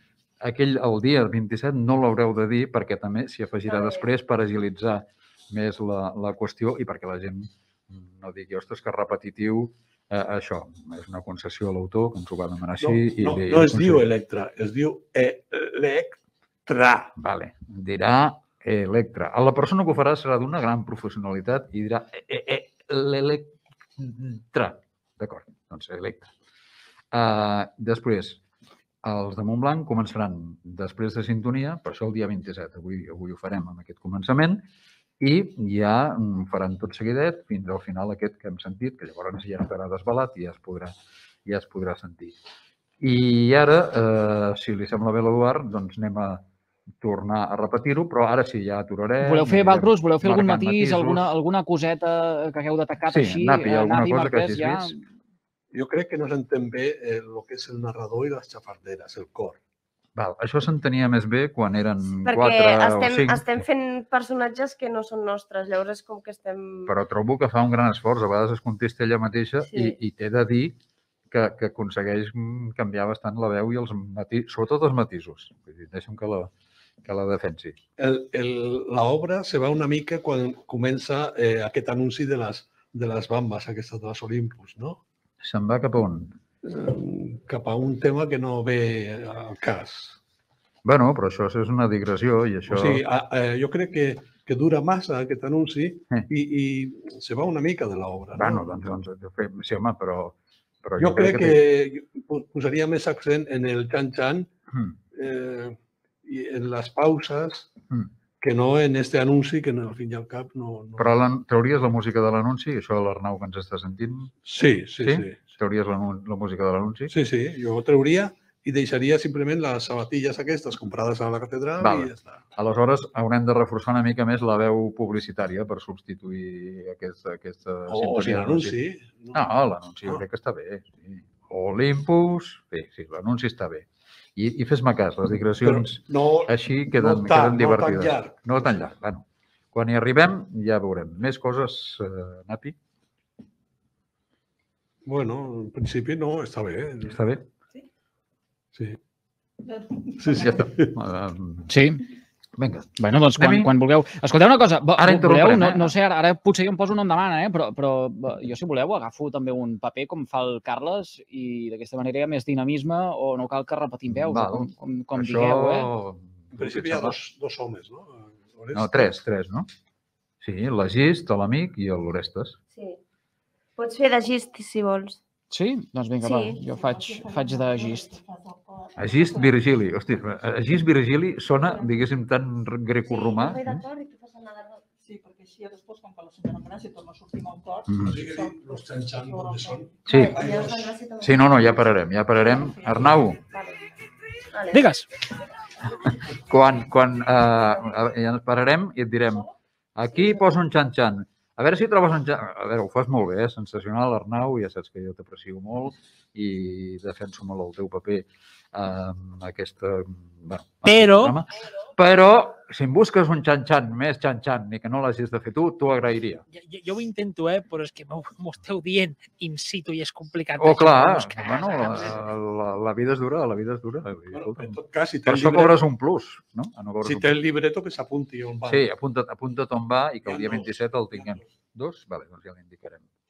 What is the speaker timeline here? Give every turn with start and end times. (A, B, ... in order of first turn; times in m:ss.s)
0:00.4-0:14.0 A
0:03.6-0:04.1 B
0:12.8-0:17.1 C
0:17.2-0:26.3 A
0:27.1-0:28.4 A
0:29.0-0:34.7 A
0:35.2-0:40.9 A
0:41.4-0:42.4 A
0:43.0-0:46.4 A
0:47.0-0:51.3 A
0:49.2-0:55.0 D
0:53.1-0:55.0 A
0:55.7-0:59.6 C
1:00.1-1:03.6 A
1:02.2-1:06.9 B
1:06.9-1:10.8 A
1:09.7-1:10.0 B
1:11.3-1:16.5 A
1:17.0-1:17.8 A
1:18.0-1:25.0 C
1:25.4-1:26.3 A
1:26.6-1:30.2 C
1:30.8-1:33.0 A
1:32.7-1:38.6 C
1:38.4-1:41.6 A
1:41.0-1:44.5 C
1:44.7-1:45.0 A
1:45.1-1:47.7 C
1:48.4-1:51.1 C
1:51.0-1:54.3 A
1:54.4-1:55.4 C
1:55.0-1:57.1 A
1:57.1-2:02.4 C
2:01.8-2:08.8 A
2:07.9-2:09.4 C
2:09.3-2:22.8 A
2:15.6-2:18.5 C
2:25.0-2:27.2 C
2:27.1-2:27.4 A
2:29.6-2:30.6 E
2:30.2-2:30.9 C
2:30.3-2:31.7 A
2:31.7-2:32.0 D
2:32.6-2:33.7 A
2:33.0-2:45.9 D
2:35.0-2:35.9 A
2:44.1-2:47.2 A
2:46.5-2:49.1 C
2:48.7-2:49.7 A
2:50.4-2:52.6 A
2:52.7-2:53.0 B
2:53.8-2:55.2 B
2:55.5-2:58.1 D
2:56.2-2:56.6 B
2:56.6-2:59.6 E
2:59.0-3:03.8 A
3:01.6-3:02.1 E
3:03.0-3:04.8 B
3:05.0-3:09.9 E
3:07.9-3:08.2 A
3:08.0-3:10.9 C
3:10.0-3:10.4 A
3:10.1-3:11.4 B
3:11.2-3:13.4 A
3:12.4-3:13.3 E
3:13.5-3:13.8 B
3:14.5-3:14.8 B
3:14.7-3:15.1 F
3:16.4-3:36.4 A
3:20.2-3:20.4 B
3:30.8-3:31.4 F
3:36.5-3:42.3 F
3:40.6-3:47.3 A
3:44.3-3:45.8 C
3:47.0-3:48.8 C
3:48.7-3:53.0 A
3:50.2-3:51.4 C